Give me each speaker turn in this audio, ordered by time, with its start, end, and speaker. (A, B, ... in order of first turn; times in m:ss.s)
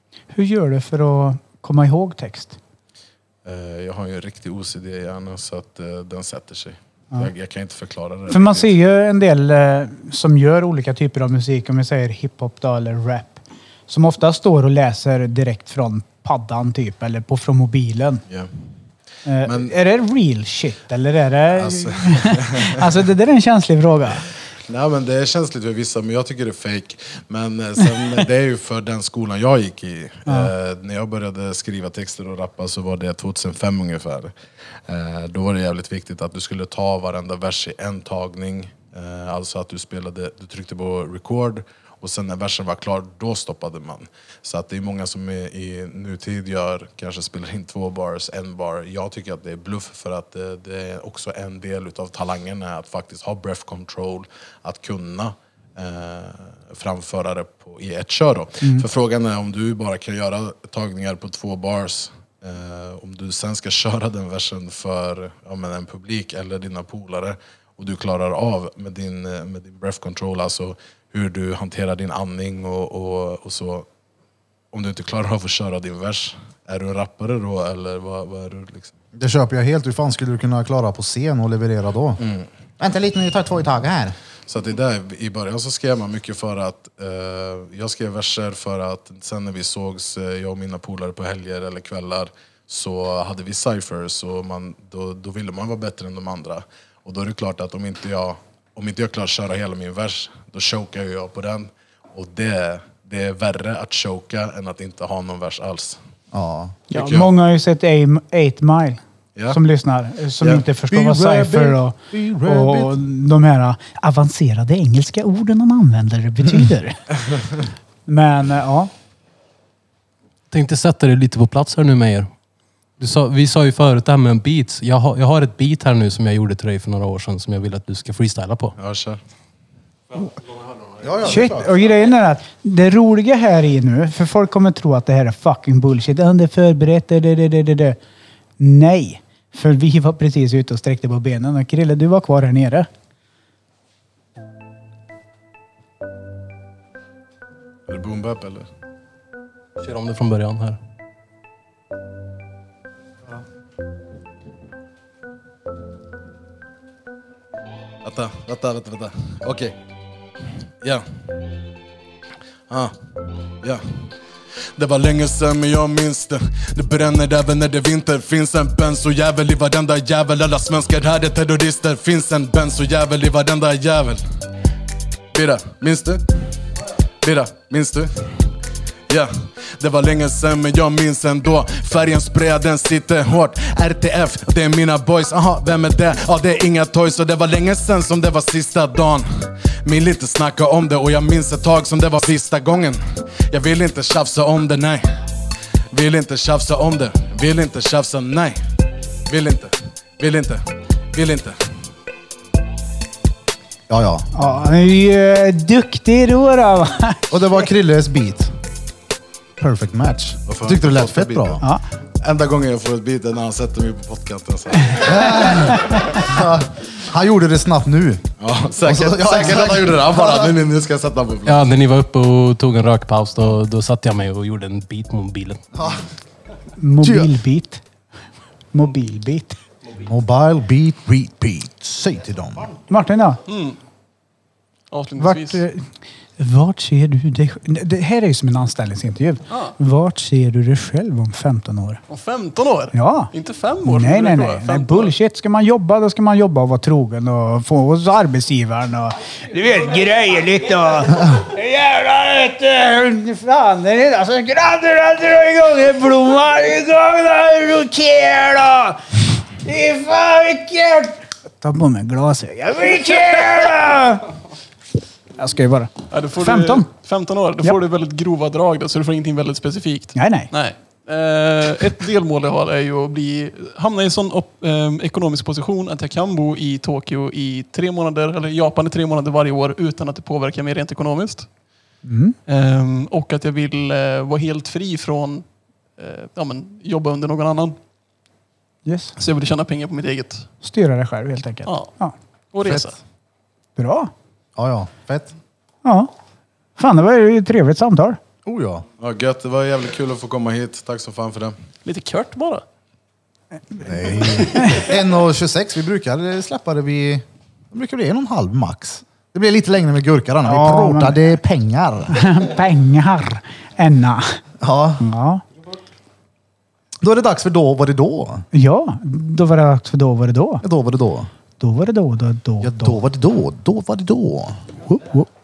0:00.3-0:02.6 A
0:03.4-0:08.7 B
0:08.3-0:18.2 A
0:19.2-0:24.3 A
0:19.4-0:19.7 B
0:21.5-0:22.8 B
0:24.7-0:34.3 B
0:30.2-0:30.5 A
0:34.9-1:13.8 B
1:14.7-1:18.9 B
1:19.2-1:22.2 C
1:22.2-1:22.5 B
1:22.8-1:24.2 C
1:24.5-1:46.0 B
1:46.3-1:46.8 C
1:46.9-1:57.0 A
1:46.9-1:47.3 B
1:50.8-1:53.0 C
1:58.1-1:58.9 A
2:00.5-2:02.3 D
2:03.0-2:08.7 D
2:08.8-2:09.2 B
2:11.0-2:11.9 C
2:11.2-2:18.0 A
2:18.6-2:22.9 A
2:27.9-2:28.7 B
2:29.8-2:30.8 D
2:38.0-2:39.8 B
2:42.7-2:42.9 B
2:44.8-2:54.2 B
2:55.3-2:56.2 B
2:57.2-2:58.3 B
2:59.1-3:15.0 B
3:15.9-3:18.6 B
3:19.3-3:20.6 B
3:21.1-3:21.6 B
3:23.9-3:24.3 C
3:24.3-3:27.4 A
3:27.3-3:28.5 C
3:29.6-3:31.6 C
3:30.5-3:31.6 B
3:32.2-3:35.4 B
3:35.0-3:38.2 C
3:38.4-3:41.7 B
3:38.8-3:40.5 C
3:41.4-3:45.6 D
3:45.8-3:46.0 C
3:46.8-3:47.8 A
3:47.0-3:47.3 C
3:48.7-3:49.6 A
3:49.9-3:52.7 C
3:52.9-3:53.4 A
3:53.4-3:53.8 E
3:54.9-3:55.6 E
3:55.2-3:55.8 A
3:56.4-4:02.0 A
3:59.5-3:59.7 E
4:02.1-4:05.1 E
4:02.9-4:03.3 A
4:03.8-4:24.3 A
4:25.4-4:26.9 A
4:26.1-4:41.5 E
4:30.1-4:30.5 A
4:42.0-4:42.4 A
4:42.5-4:47.8 E
4:48.8-4:49.1 A
4:49.2-4:50.5 E
4:50.6-4:52.1 A
4:51.6-4:51.9 E
4:52.5-4:53.0 E
4:53.8-4:54.1 A
4:54.6-4:55.3 C
4:55.8-4:56.1 A
4:56.8-4:58.2 A
4:58.4-4:58.8 C
4:59.0-5:01.6 B
5:01.8-5:02.6 E
5:03.7-5:04.9 A
5:03.8-5:12.4 C
5:10.4-5:11.2 A
5:12.1-5:14.4 A
5:14.6-5:15.1 C
5:15.0-5:15.4 A
5:17.0-5:18.4 C
5:18.5-5:20.6 A
5:20.6-5:21.3 C
5:21.6-5:23.0 A
5:22.6-5:25.2 C